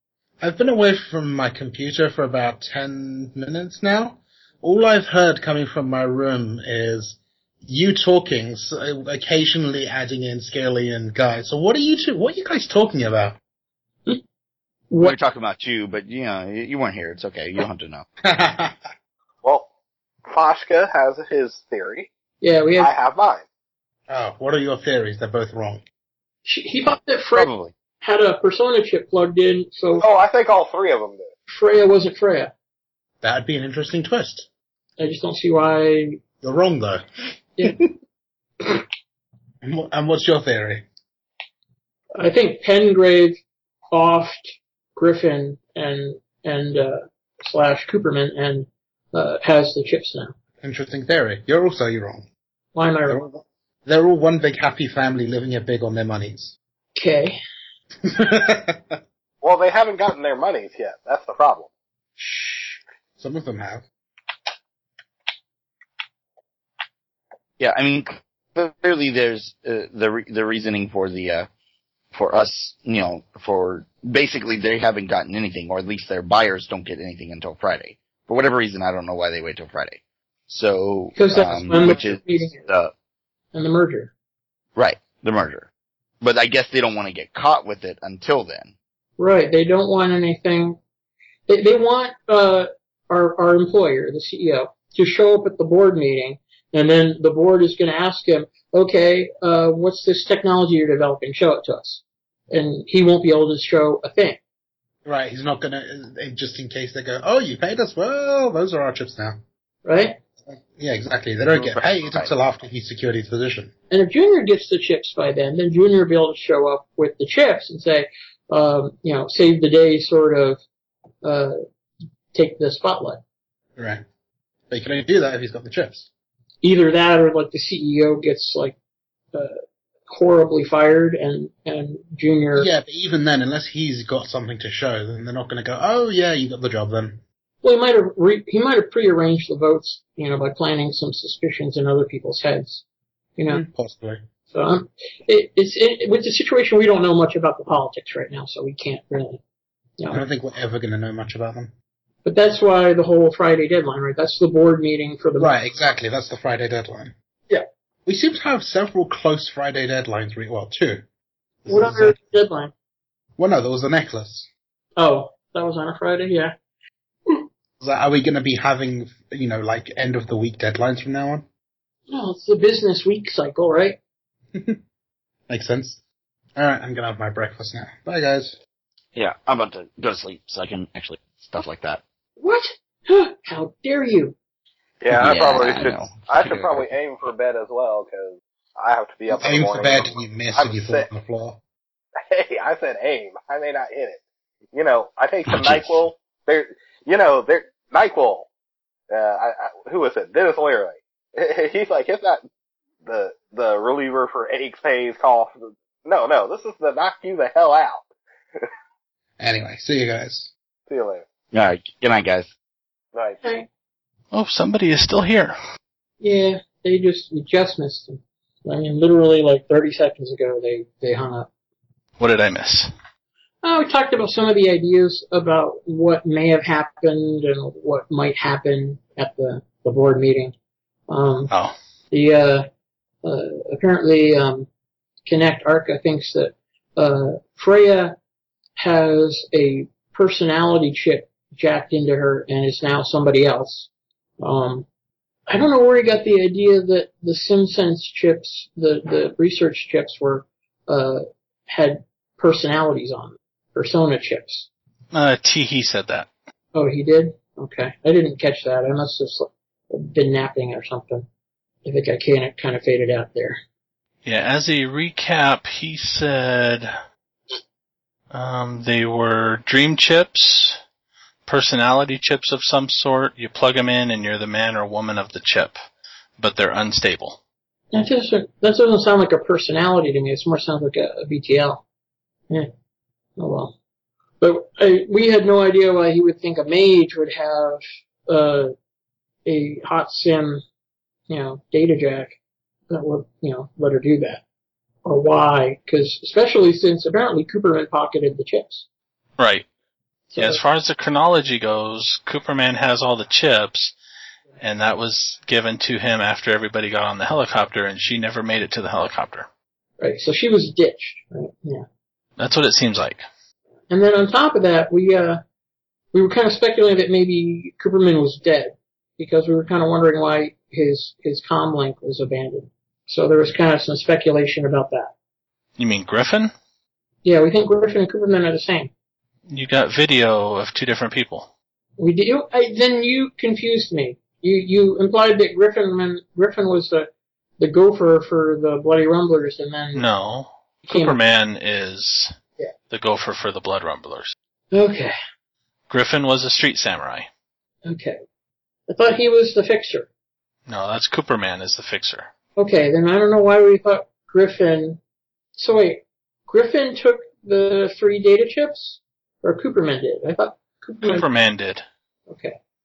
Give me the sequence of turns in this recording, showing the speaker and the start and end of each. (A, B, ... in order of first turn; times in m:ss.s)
0:00.4-0:13.4 A
0:14.9-0:15.2 B
0:15.0-0:18.1 C
0:18.2-0:18.8 A
0:20.3-0:22.1 D
0:22.4-0:22.9 B
0:22.8-0:23.4 D
0:24.1-0:25.8 A
0:26.4-0:30.1 B
0:27.4-0:27.7 C
0:30.0-0:31.3 D
0:31.5-0:32.5 B
0:33.2-0:34.5 A
0:35.0-0:36.2 B
0:36.4-0:37.1 A
0:39.6-0:40.9 A
0:42.2-0:43.4 B
0:43.9-0:50.3 B
0:50.6-0:52.3 A
0:52.8-0:53.2 B
0:53.1-0:56.5 A
0:57.0-0:57.4 B
0:58.0-0:59.0 A
0:59.4-1:01.7 D
1:02.2-1:03.8 A
1:07.6-1:11.5 C
1:12.1-1:22.9 C
1:21.2-1:22.6 B
1:23.5-1:24.1 B
1:24.8-1:25.7 C
1:26.2-1:28.7 C
1:29.2-1:30.8 B
1:31.5-1:44.4 B
1:45.0-1:49.4 A
1:49.8-1:50.2 B
1:50.5-1:53.7 A
1:51.6-1:52.3 C
1:53.9-2:00.6 B
2:01.2-2:01.6 B
2:02.3-2:03.2 B
2:03.8-2:04.0 A
2:04.7-2:06.1 A
2:06.6-2:08.8 B
2:10.1-2:12.7 B
2:12.6-2:17.2 A
2:17.6-2:22.8 B
2:23.4-2:23.6 B
2:23.5-2:24.2 A
2:24.5-2:29.4 B
2:30.1-2:31.7 A
2:32.2-2:35.5 B
2:35.4-2:37.1 A
2:38.1-2:41.1 A
2:41.6-2:42.2 A
2:41.7-2:42.7 B
2:43.4-2:44.5 A
2:45.0-2:46.5 B
2:47.8-2:51.5 A
2:52.1-2:54.0 B
2:54.5-2:54.8 A
2:55.5-2:56.0 A
2:56.6-2:58.6 A
2:59.2-3:02.0 C
3:02.4-3:04.4 B
3:05.0-3:11.1 D
3:05.1-3:06.8 C
3:09.3-3:11.6 A
3:12.3-3:14.2 D
3:14.7-3:18.5 D
3:15.5-3:16.0 C
3:19.1-3:22.4 D
3:23.0-3:28.0 D
3:29.4-3:30.5 A
3:30.9-3:31.2 D
3:31.5-3:32.5 C
3:33.2-3:33.4 D
3:33.4-3:33.7 B
3:34.3-3:35.6 E
3:36.2-3:41.5 B
3:42.2-3:42.9 E
3:43.6-3:50.5 B
3:51.1-3:51.5 B
3:52.1-3:52.7 B
3:53.2-3:54.7 B
3:55.3-3:58.2 B
3:58.8-4:03.9 B
4:04.4-4:04.9 B
4:05.5-4:14.7 B
4:15.1-4:16.3 E
4:16.7-4:21.3 B
4:21.8-4:23.6 B
4:24.2-4:26.9 E
4:28.3-4:30.8 E
4:31.5-4:35.7 E
4:36.4-4:37.4 E
4:37.9-4:41.8 B
4:43.4-4:43.8 B
4:44.4-4:48.7 B
4:49.5-4:50.6 B
4:51.3-4:52.4 B
4:52.9-4:54.4 B
4:55.0-4:58.8 B
4:59.4-4:59.7 E
5:00.3-5:00.6 B
5:00.4-5:04.0 E
5:04.6-5:09.5 E
5:10.0-5:11.9 B
5:12.4-5:13.2 E
5:13.9-5:15.4 B
5:16.1-5:25.1 B
5:25.8-5:26.5 E
5:27.2-5:28.9 B
5:29.5-5:31.5 E
5:32.0-5:40.0 B
5:39.9-5:42.4 E
5:40.9-5:41.2 B
5:42.9-5:44.4 E
5:44.7-5:45.1 B
5:45.9-5:47.3 E
5:47.9-5:48.2 B
5:48.9-5:50.1 B
5:50.7-5:52.3 E
5:52.6-5:55.0 B
5:55.6-6:01.2 B
6:01.0-6:01.8 E
6:02.3-6:02.6 B